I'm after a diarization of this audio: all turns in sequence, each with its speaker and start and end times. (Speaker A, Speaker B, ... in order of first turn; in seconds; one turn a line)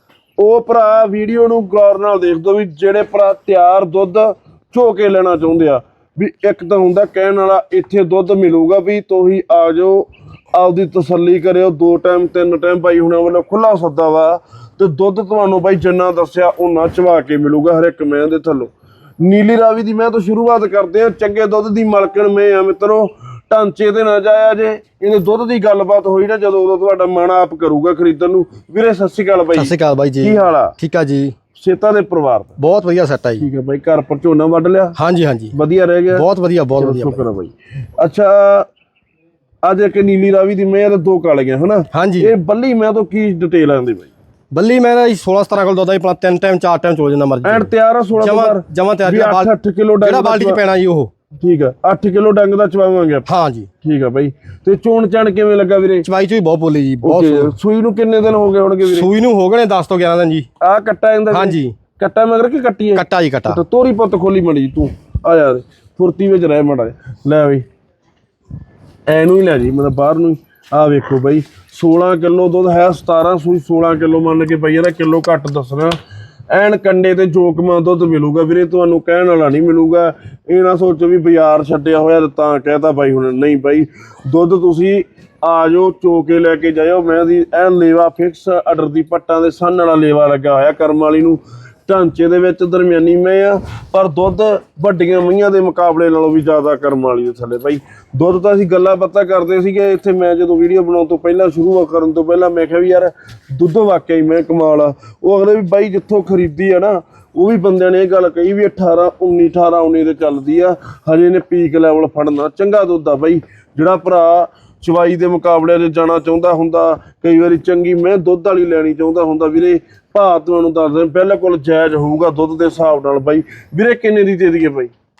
Speaker A: 0.4-30.8
Speaker B: 29.6-31.3
Speaker A: 31.5-32.6
Speaker B: 32.6-33.4
Speaker A: 33.4-35.0
Speaker B: 35.0-35.5
Speaker A: 35.5-36.2
Speaker B: 36.1-37.2
Speaker A: 36.8-38.7
Speaker A: 39.6-44.1
Speaker B: 41.9-42.3
Speaker B: 44.5-49.5
Speaker A: 47.4-50.6
Speaker B: 50.0-51.1
Speaker A: 51.4-53.3
Speaker B: 53.2-53.7
Speaker A: 53.8-56.1
Speaker B: 56.0-57.5
Speaker A: 57.0-59.1
Speaker B: 58.8-60.5
Speaker A: 60.6-67.6
Speaker B: 61.3-61.7
Speaker B: 62.9-63.6
Speaker A: 69.1-76.0
Speaker A: 76.5-124.9